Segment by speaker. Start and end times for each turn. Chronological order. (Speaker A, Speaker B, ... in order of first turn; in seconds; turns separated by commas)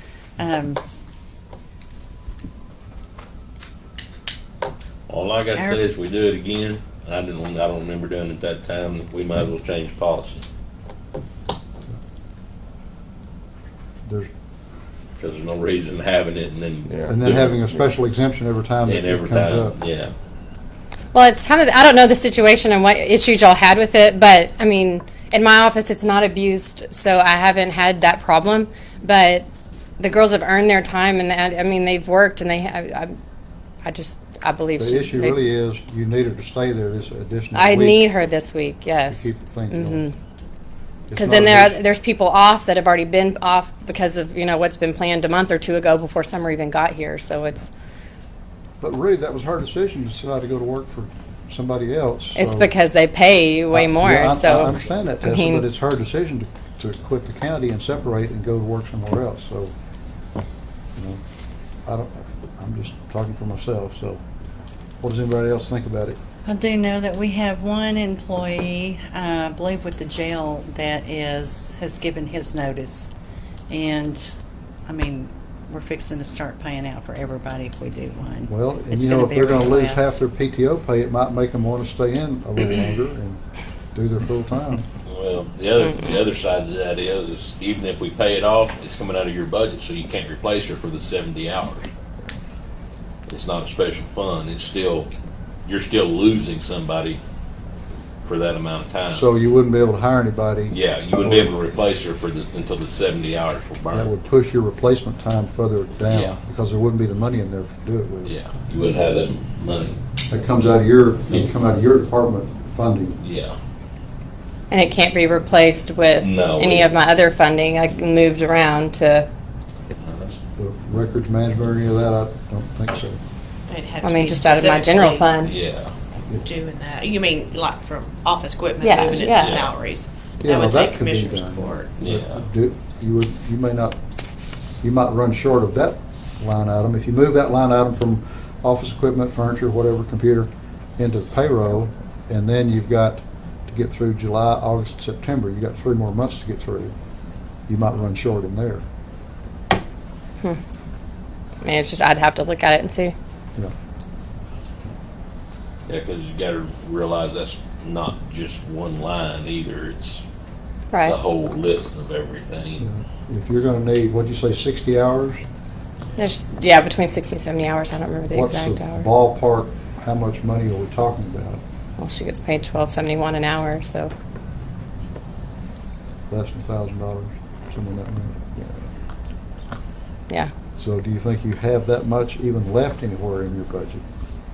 Speaker A: 0.4-0.8, Speaker B: 5.1-10.4, Speaker A: 5.5-5.8, Speaker B: 15.2-17.8, Speaker C: 17.1-19.8, Speaker B: 18.9-20.1, Speaker D: 21.1-29.5, Speaker D: 30.0-33.2, Speaker D: 33.8-35.4, Speaker C: 34.8-38.1, Speaker D: 37.5-40.1, Speaker C: 39.1-40.0, Speaker C: 41.1-41.8, Speaker D: 41.2-47.7, Speaker C: 48.8-52.7, Speaker D: 52.4-55.6, Speaker C: 53.7-59.7, Speaker C: 61.0-61.2, Speaker C: 61.9-64.2, Speaker C: 65.0-66.2, Speaker A: 66.5-73.1, Speaker A: 73.7-74.3, Speaker A: 74.9-80.2, Speaker C: 78.5-83.4, Speaker C: 83.9-84.8, Speaker B: 85.0-91.9, Speaker B: 93.3-95.1, Speaker B: 95.7-97.2, Speaker B: 98.2-99.3, Speaker C: 99.1-101.5, Speaker B: 100.7-104.1, Speaker C: 103.9-108.3, Speaker B: 106.1-106.4, Speaker B: 108.2-110.0, Speaker C: 110.3-113.2, Speaker B: 113.2-113.6, Speaker D: 114.7-119.3, Speaker B: 116.2-116.9, Speaker B: 120.0-120.4, Speaker C: 120.6-123.2, Speaker E: 123.7-125.4, Speaker D: 124.0-125.5, Speaker B: 125.4-125.9, Speaker E: 126.4-131.9, Speaker D: 128.8-129.6, Speaker B: 129.3-129.7, Speaker C: 130.4-134.0, Speaker B: 132.0-132.4, Speaker C: 134.8-146.9, Speaker C: 147.7-148.8, Speaker D: 151.6-153.2, Speaker B: 155.9-160.2, Speaker D: 160.9-161.2, Speaker B: 161.0-162.9, Speaker C: 162.8-165.4, Speaker D: 166.2-169.1, Speaker C: 168.3-171.6, Speaker D: 172.0-174.1, Speaker C: 176.3-178.9, Speaker C: 180.8-184.0